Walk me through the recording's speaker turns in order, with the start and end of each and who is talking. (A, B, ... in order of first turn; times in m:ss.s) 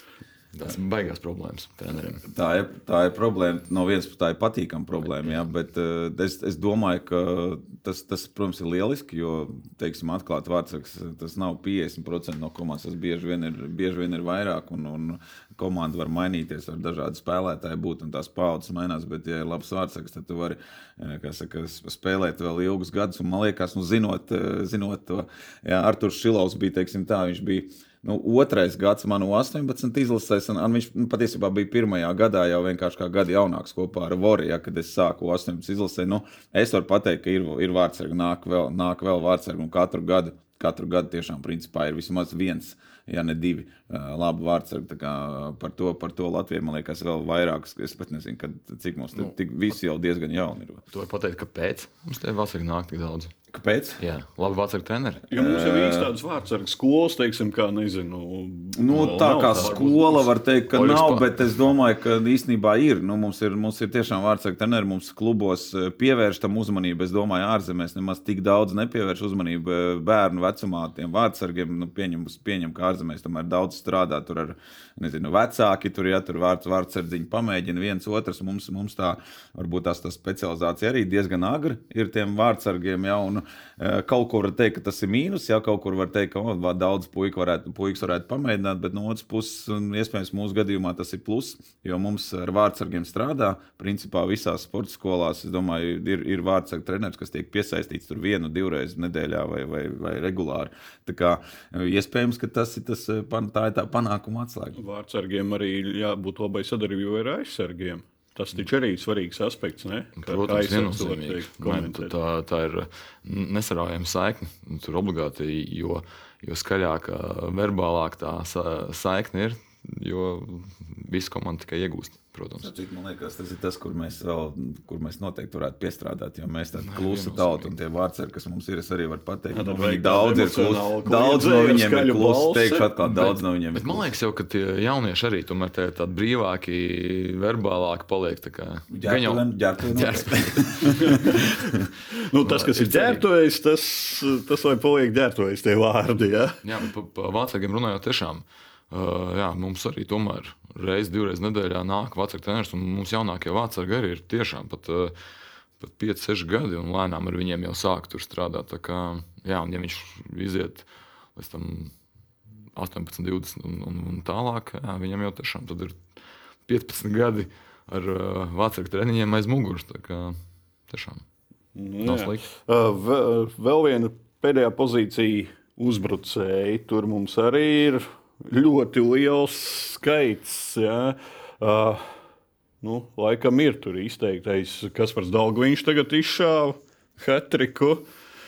0:00.5-0:02.2 A
0:02.3-0:50.8 B
0:50.9-0:53.3 A
0:53.5-0:54.0 B
0:54.0-0:55.2 A
0:55.3-1:00.2 C
0:55.3-0:56.1 B
0:58.7-1:44.8 B
0:59.4-1:00.0 A
1:00.7-1:01.3 A
1:44.7-1:52.1 C
1:50.2-2:02.7 A
2:02.6-2:14.0 B
2:06.8-2:07.7 A
2:09.5-2:12.9 C
2:13.0-2:21.4 A
2:18.9-2:21.8 B
2:21.0-2:21.4 C
2:22.1-2:26.6 C
2:22.4-2:23.2 A
2:26.6-2:35.1 A
2:35.8-2:41.9 A
2:42.7-2:46.0 A
2:46.7-2:50.4 A
2:50.9-2:51.2 A
2:51.7-3:02.1 C
2:52.0-2:52.4 A
3:02.8-3:08.0 C